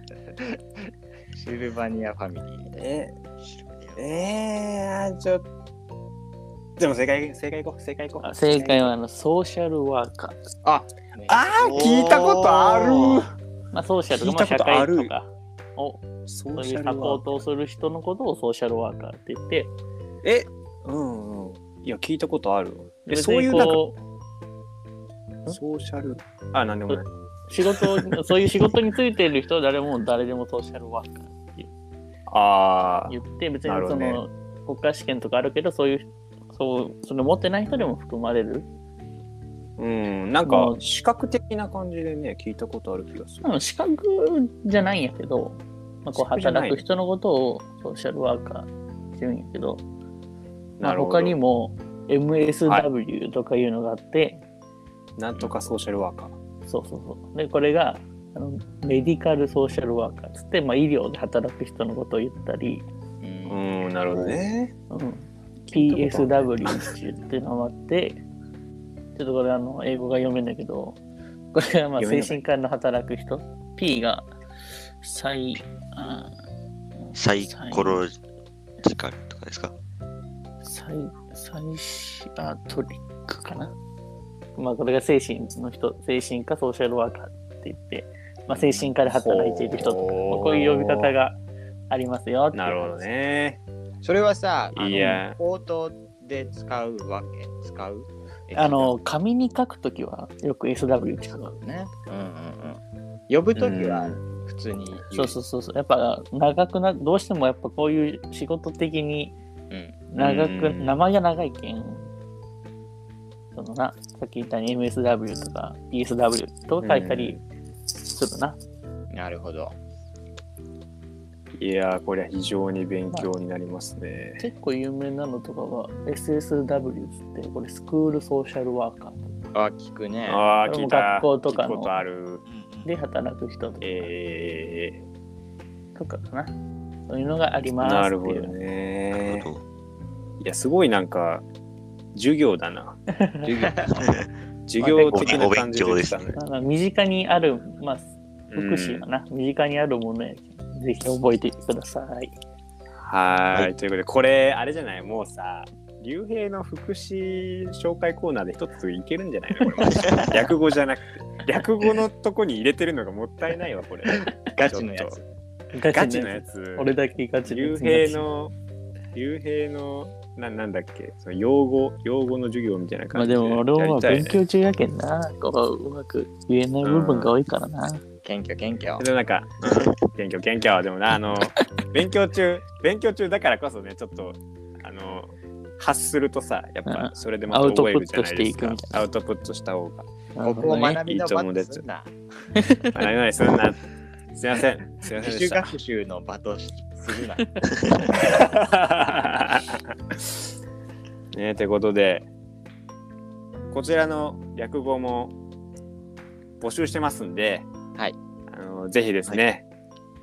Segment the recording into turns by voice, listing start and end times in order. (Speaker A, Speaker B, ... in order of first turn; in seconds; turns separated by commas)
Speaker A: 0.3-2.9, Speaker B: 2.8-3.1, Speaker C: 3.4-4.0, Speaker B: 4.0-5.4, Speaker B: 6.8-8.9, Speaker D: 8.2-10.4, Speaker A: 10.6-12.3, Speaker B: 11.3-13.3, Speaker C: 11.6-13.2, Speaker D: 13.7-19.7, Speaker B: 14.2-15.1, Speaker B: 16.3-17.4, Speaker B: 20.2-23.8, Speaker D: 23.1-24.0, Speaker B: 25.5-27.1, Speaker D: 26.9-31.7, Speaker B: 27.7-28.1, Speaker B: 32.3-34.2, Speaker D: 33.1-38.7, Speaker B: 39.8-43.5, Speaker D: 40.5-40.8, Speaker D: 43.4-49.8, Speaker B: 46.1-46.8, Speaker B: 50.8-51.4, Speaker D: 50.8-54.4, Speaker B: 55.2-56.3, Speaker D: 56.7-62.9, Speaker A: 63.2-63.6, Speaker B: 63.5-64.7, Speaker D: 64.9-68.2, Speaker B: 65.7-66.9, Speaker D: 69.2-71.0, Speaker D: 71.5-74.3, Speaker B: 72.0-72.4, Speaker D: 75.0-76.3, Speaker D: 77.1-78.0, Speaker C: 77.1-78.2, Speaker C: 78.8-79.7, Speaker D: 80.6-83.7, Speaker D: 84.6-91.4, Speaker A: 88.5-88.9, Speaker B: 89.0-89.9, Speaker A: 89.8-90.7, Speaker B: 90.5-91.1, Speaker D: 91.9-93.1, Speaker B: 92.5-93.6, Speaker A: 94.0-98.9, Speaker B: 94.7-95.4, Speaker D: 94.9-95.2, Speaker D: 98.5-101.5, Speaker A: 101.3-105.4, Speaker B: 103.6-104.2, Speaker D: 105.1-109.4, Speaker A: 109.7-110.0, Speaker D: 110.1-112.1, Speaker B: 110.2-110.9, Speaker D: 113.5-117.4, Speaker B: 116.8-117.4, Speaker D: 118.0-118.6, Speaker A: 119.1-119.8, Speaker B: 121.6-124.4, Speaker D: 124.4-129.3, Speaker A: 129.5-130.4, Speaker B: 130.3-132.4, Speaker D: 130.7-132.0, Speaker C: 132.6-132.9, Speaker D: 132.8-134.1, Speaker B: 133.8-135.0, Speaker D: 135.9-136.5, Speaker D: 137.1-138.5, Speaker B: 137.8-139.5, Speaker C: 139.1-139.6, Speaker B: 140.4-141.4, Speaker B: 142.1-143.9, Speaker D: 143.2-143.5, Speaker A: 143.7-144.0, Speaker C: 143.9-144.3, Speaker B: 144.7-146.4, Speaker D: 144.8-145.4, Speaker C: 145.1-146.4, Speaker D: 146.4-152.4, Speaker B: 148.5-149.1, Speaker B: 153.0-165.2, Speaker A: 164.5-165.3, Speaker D: 165.7-168.3, Speaker B: 165.9-166.9, Speaker B: 167.4-168.5, Speaker B: 169.2-174.4, Speaker D: 173.1-178.0, Speaker B: 176.8-177.3, Speaker A: 178.2-179.1, Speaker B: 179.0-190.1, Speaker D: 186.9-188.9, Speaker D: 190.4-191.0, Speaker A: 190.4-192.1, Speaker B: 190.6-191.8, Speaker D: 192.6-193.1, Speaker B: 192.9-195.7, Speaker A: 195.2-198.2, Speaker D: 197.4-197.7, Speaker B: 198.1-199.8, Speaker B: 201.3-202.3, Speaker B: 203.7-205.3, Speaker B: 206.6-207.7, Speaker B: 208.5-209.7